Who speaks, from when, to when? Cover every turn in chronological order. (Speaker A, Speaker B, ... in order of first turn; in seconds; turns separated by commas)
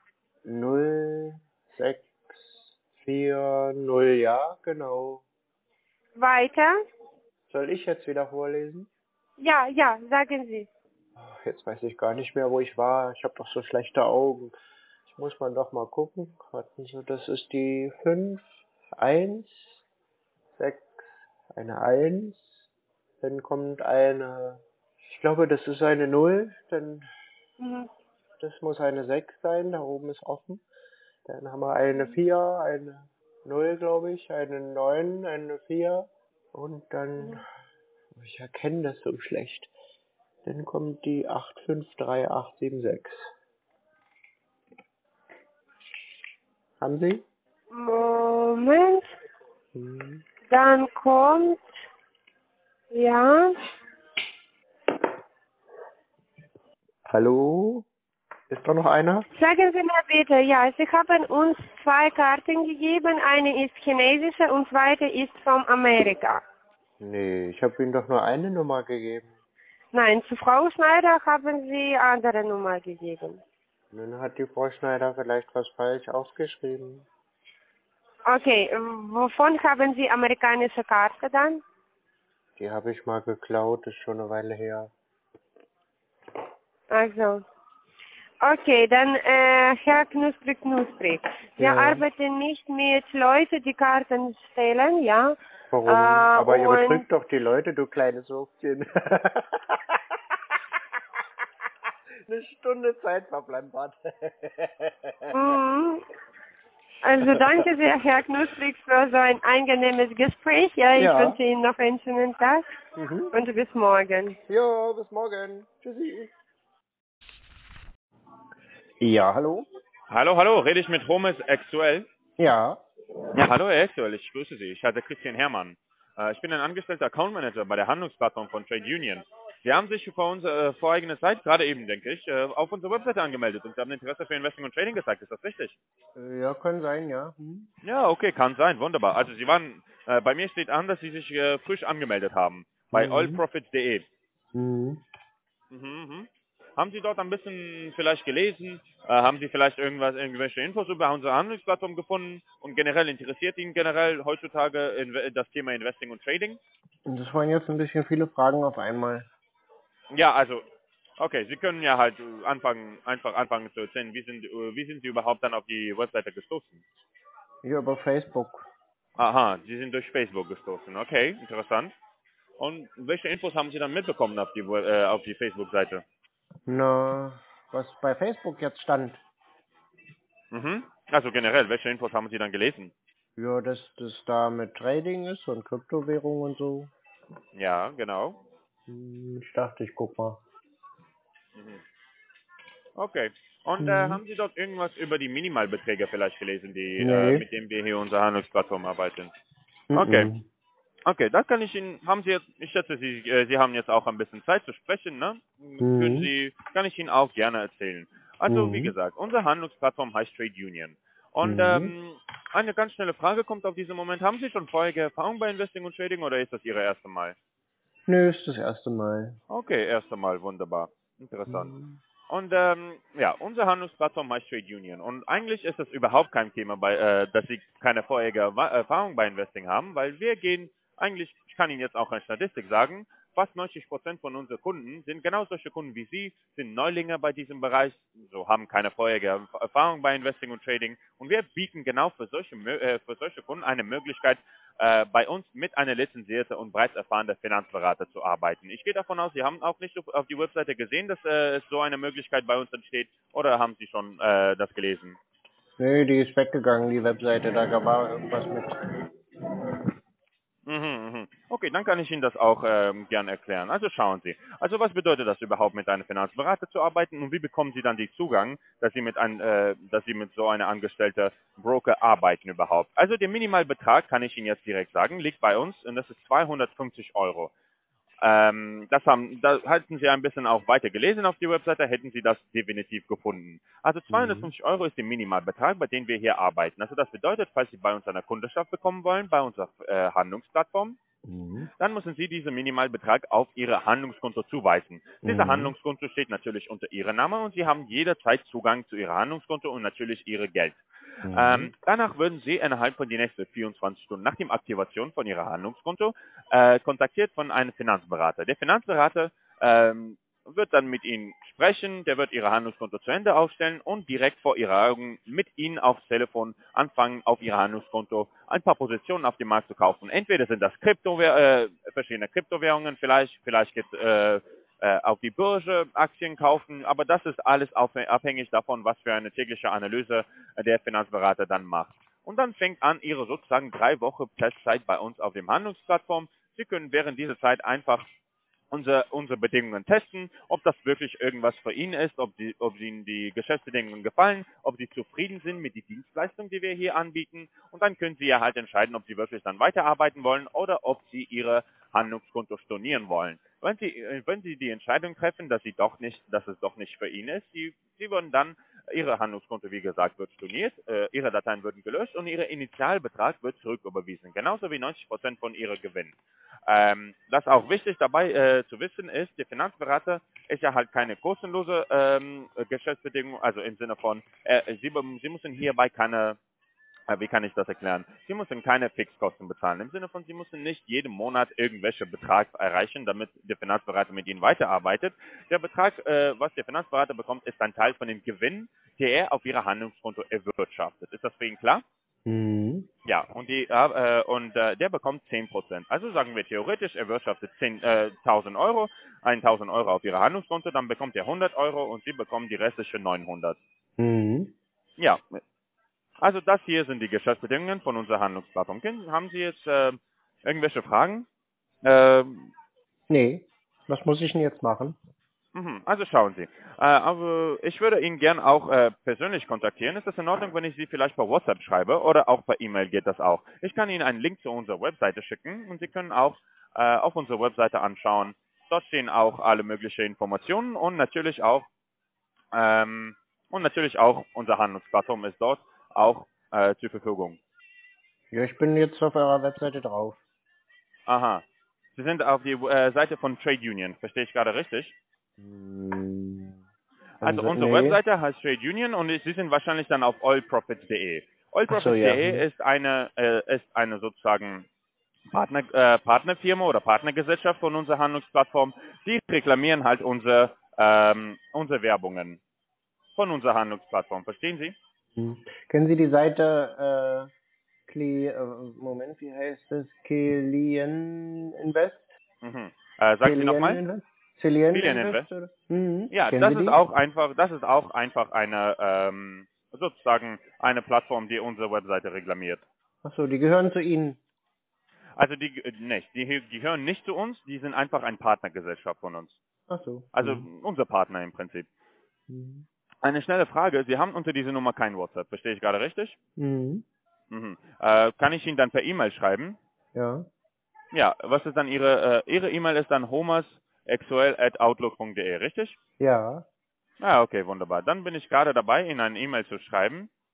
Speaker A: 0.5-5.2, Speaker B: 6.2-6.8, Speaker A: 7.5-8.9, Speaker B: 9.4-10.7, Speaker A: 11.2-14.5, Speaker A: 15.1-18.4, Speaker A: 19.0-19.8, Speaker A: 20.6-22.7, Speaker A: 23.2-27.1, Speaker B: 27.6-27.9, Speaker A: 28.4-30.6, Speaker A: 31.3-37.4, Speaker A: 38.2-39.7, Speaker A: 40.5-43.3, Speaker A: 46.8-47.2, Speaker B: 47.7-49.1, Speaker A: 49.8-50.3, Speaker B: 50.5-51.8, Speaker B: 52.9-53.5, Speaker A: 57.1-57.9, Speaker A: 58.5-59.2, Speaker B: 59.3-66.4, Speaker A: 67.0-69.3, Speaker B: 69.9-73.4, Speaker A: 73.9-77.1, Speaker B: 78.3-81.6, Speaker A: 82.6-84.9, Speaker B: 86.9-87.4, Speaker B: 88.4-97.0, Speaker A: 91.6-92.0, Speaker A: 95.7-100.0, Speaker A: 102.3-105.6, Speaker B: 105.3-106.0, Speaker B: 107.0-112.7, Speaker A: 107.2-107.7, Speaker A: 111.0-111.4, Speaker A: 113.0-113.3, Speaker B: 113.3-114.4, Speaker A: 114.5-116.3, Speaker A: 119.0-119.7, Speaker C: 120.1-122.1, Speaker A: 122.4-122.8, Speaker C: 123.4-135.8, Speaker A: 136.2-137.7, Speaker C: 137.8-144.1, Speaker A: 142.9-143.4, Speaker A: 144.5-145.0, Speaker C: 145.7-156.6, Speaker A: 157.1-159.3, Speaker C: 160.1-160.6, Speaker C: 161.2-166.8, Speaker A: 167.6-168.7, Speaker C: 169.2-171.9, Speaker C: 172.6-176.0, Speaker A: 176.7-179.2, Speaker C: 180.5-182.9, Speaker A: 183.4-186.9, Speaker C: 187.5-188.4, Speaker A: 188.9-190.4, Speaker C: 191.6-191.8, Speaker C: 193.0-199.3, Speaker A: 193.8-194.2, Speaker A: 197.0-197.4, Speaker A: 199.9-200.4, Speaker C: 199.9-200.3, Speaker C: 201.1-217.3, Speaker A: 205.8-206.3, Speaker A: 208.5-208.9, Speaker A: 211.4-211.9, Speaker A: 218.1-219.4, Speaker C: 219.5-221.8, Speaker A: 221.5-222.0, Speaker C: 222.3-255.2, Speaker A: 255.8-258.7, Speaker C: 260.7-277.5, Speaker C: 278.2-291.0, Speaker A: 284.1-284.5, Speaker A: 291.3-291.7, Speaker C: 291.8-338.1, Speaker A: 295.2-295.7, Speaker A: 301.3-301.7, Speaker C: 338.7-366.1, Speaker C: 366.7-376.4, Speaker C: 377.1-391.8, Speaker A: 392.3-392.9, Speaker C: 393.1-403.6, Speaker A: 404.0-404.5, Speaker C: 405.0-405.4, Speaker C: 406.2-411.3, Speaker C: 411.8-412.5, Speaker A: 413.1-415.0, Speaker C: 415.6-431.7, Speaker C: 432.5-437.4, Speaker A: 438.3-440.2, Speaker C: 441.1-441.4, Speaker C: 441.9-444.9, Speaker A: 445.4-446.6, Speaker C: 447.2-454.7, Speaker A: 447.2-448.0, Speaker A: 451.7-452.4, Speaker C: 455.3-462.4, Speaker C: 463.1-464.8, Speaker A: 465.2-467.3, Speaker A: 467.9-472.1, Speaker C: 472.4-473.8, Speaker A: 473.2-476.8, Speaker C: 474.7-475.3, Speaker C: 476.1-482.6, Speaker A: 483.0-484.2, Speaker C: 485.2-489.4, Speaker A: 489.7-490.5, Speaker C: 490.1-491.7, Speaker A: 492.3-492.7, Speaker C: 493.0-496.2, Speaker A: 496.4-496.9, Speaker C: 497.3-499.6, Speaker A: 499.9-500.3, Speaker C: 500.9-505.8, Speaker A: 506.0-506.5, Speaker C: 507.0-510.1